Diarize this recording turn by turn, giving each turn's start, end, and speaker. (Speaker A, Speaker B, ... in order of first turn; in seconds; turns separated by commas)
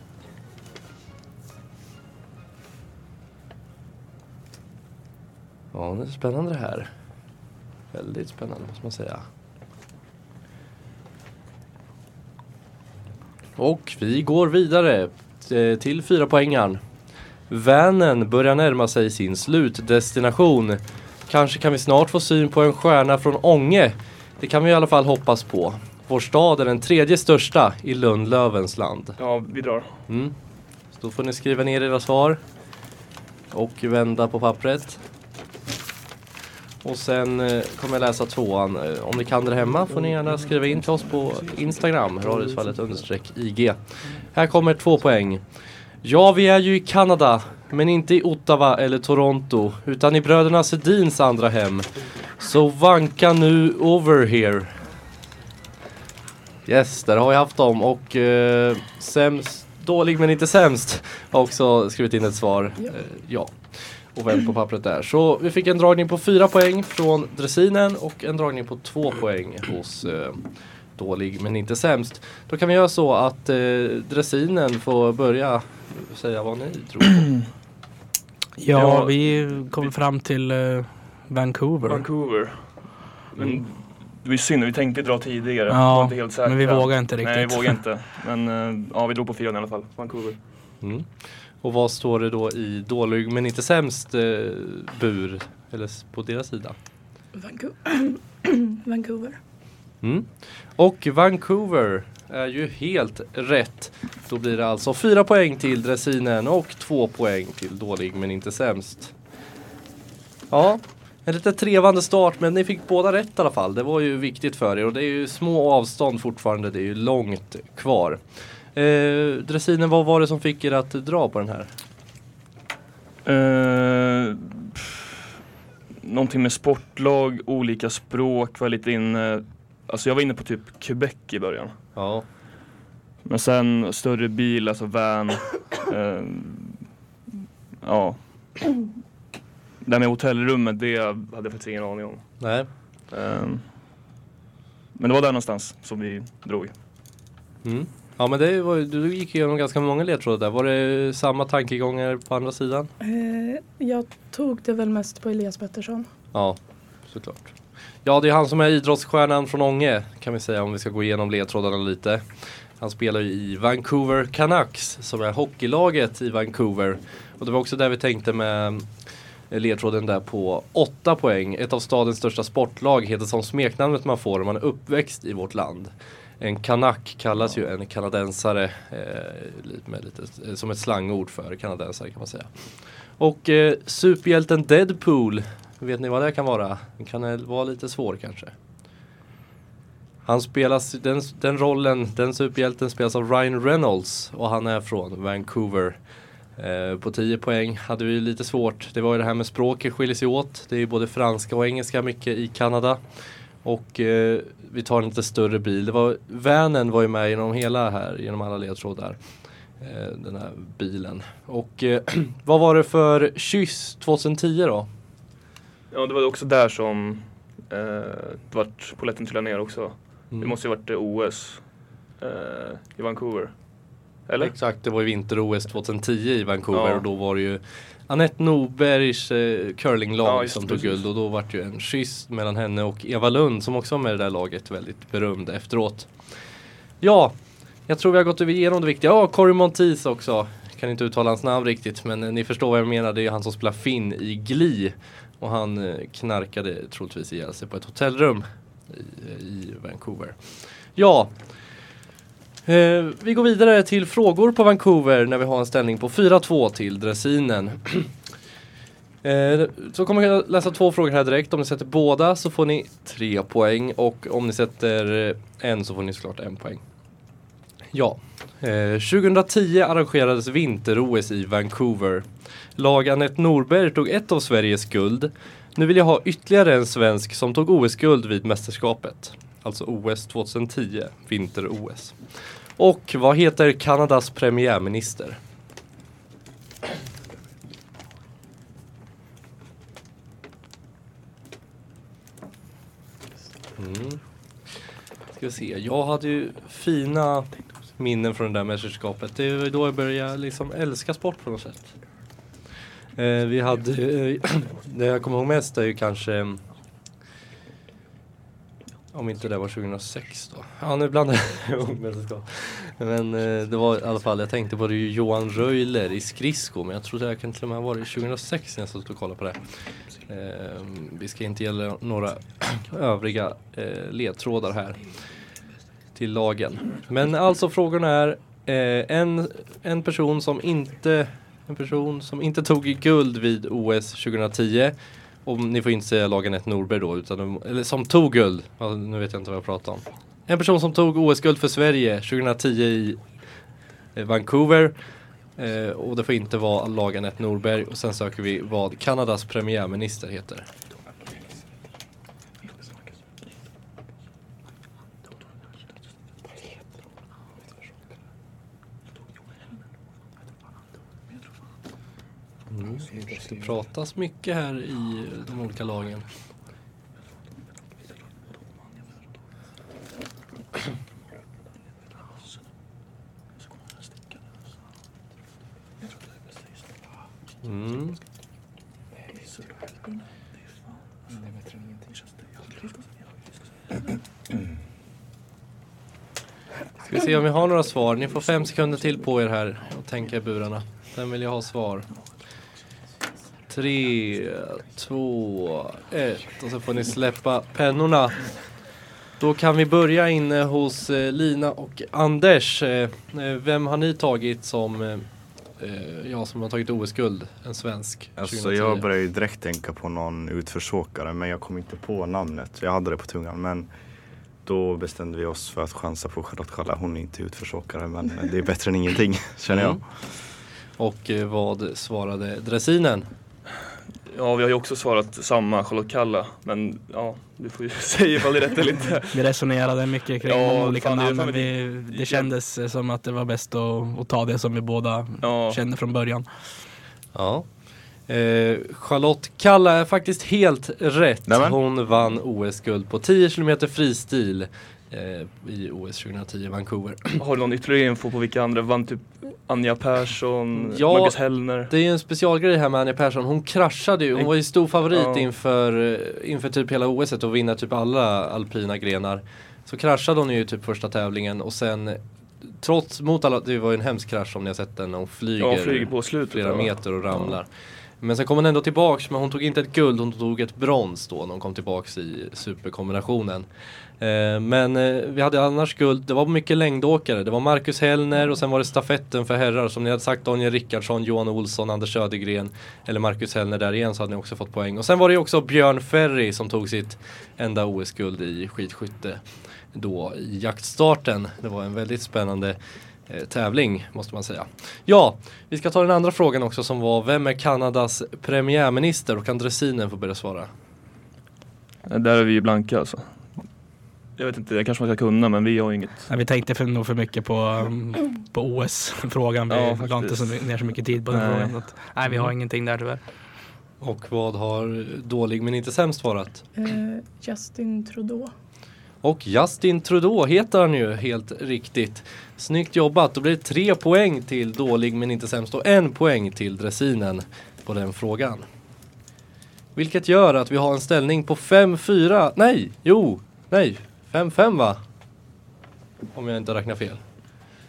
Speaker A: 5.7-6.9, Speaker A: 7.9-9.3, Speaker A: 13.6-16.8, Speaker A: 17.5-29.2, Speaker B: 29.2-30.0, Speaker A: 30.1-30.3, Speaker A: 31.0-32.4, Speaker A: 33.5-35.0, Speaker A: 36.8-45.5, Speaker B: 39.9-40.3, Speaker A: 46.0-54.8, Speaker A: 56.7-77.3, Speaker C: 78.6-82.1, Speaker B: 78.7-79.9, Speaker B: 81.8-90.4, Speaker C: 85.7-87.8, Speaker A: 90.8-91.1, Speaker A: 91.6-96.8, Speaker D: 97.3-99.4, Speaker A: 100.0-109.1, Speaker A: 110.5-118.2, Speaker A: 118.7-121.7, Speaker B: 123.2-125.0, Speaker B: 126.0-131.8, Speaker A: 131.9-132.2, Speaker B: 133.2-136.8, Speaker B: 137.8-138.7, Speaker B: 139.8-143.7, Speaker A: 142.4-142.7, Speaker B: 144.9-146.7, Speaker A: 147.6-152.9, Speaker D: 153.0-156.1, Speaker A: 156.3-168.9, Speaker A: 169.5-188.5, Speaker A: 190.3-196.0, Speaker A: 196.6-209.2, Speaker A: 209.8-214.9, Speaker B: 215.9-224.6, Speaker A: 220.3-220.6, Speaker A: 224.4-236.1, Speaker B: 226.7-227.1, Speaker B: 230.2-231.0, Speaker A: 237.0-237.3, Speaker A: 237.9-250.4, Speaker A: 250.9-251.3, Speaker A: 252.7-258.1, Speaker A: 259.2-266.8, Speaker A: 267.9-285.4, Speaker A: 293.8-294.2, Speaker A: 295.3-301.9, Speaker A: 303.2-306.6, Speaker A: 309.1-325.1, Speaker A: 326.1-343.3, Speaker A: 344.1-344.9, Speaker A: 345.6-350.7, Speaker A: 362.7-366.3, Speaker A: 377.6-378.2, Speaker A: 387.1-392.1, Speaker A: 393.7-398.7, Speaker A: 399.4-409.1, Speaker E: 408.4-413.9, Speaker E: 414.6-420.1, Speaker A: 419.7-420.3, Speaker A: 421.0-423.3, Speaker B: 424.3-429.4, Speaker C: 429.3-436.5, Speaker B: 430.4-432.5, Speaker B: 435.4-435.8, Speaker A: 437.3-437.7, Speaker A: 438.3-447.4, Speaker E: 441.5-441.8, Speaker B: 447.4-451.9, Speaker A: 450.8-473.7, Speaker B: 455.1-455.5, Speaker B: 465.6-467.6, Speaker A: 474.2-500.7, Speaker B: 502.1-503.6, Speaker B: 504.4-506.3, Speaker C: 506.3-513.2, Speaker B: 509.7-512.5, Speaker A: 514.0-516.6, Speaker D: 516.8-518.5, Speaker A: 519.2-528.6, Speaker A: 530.0-535.0, Speaker A: 536.3-537.2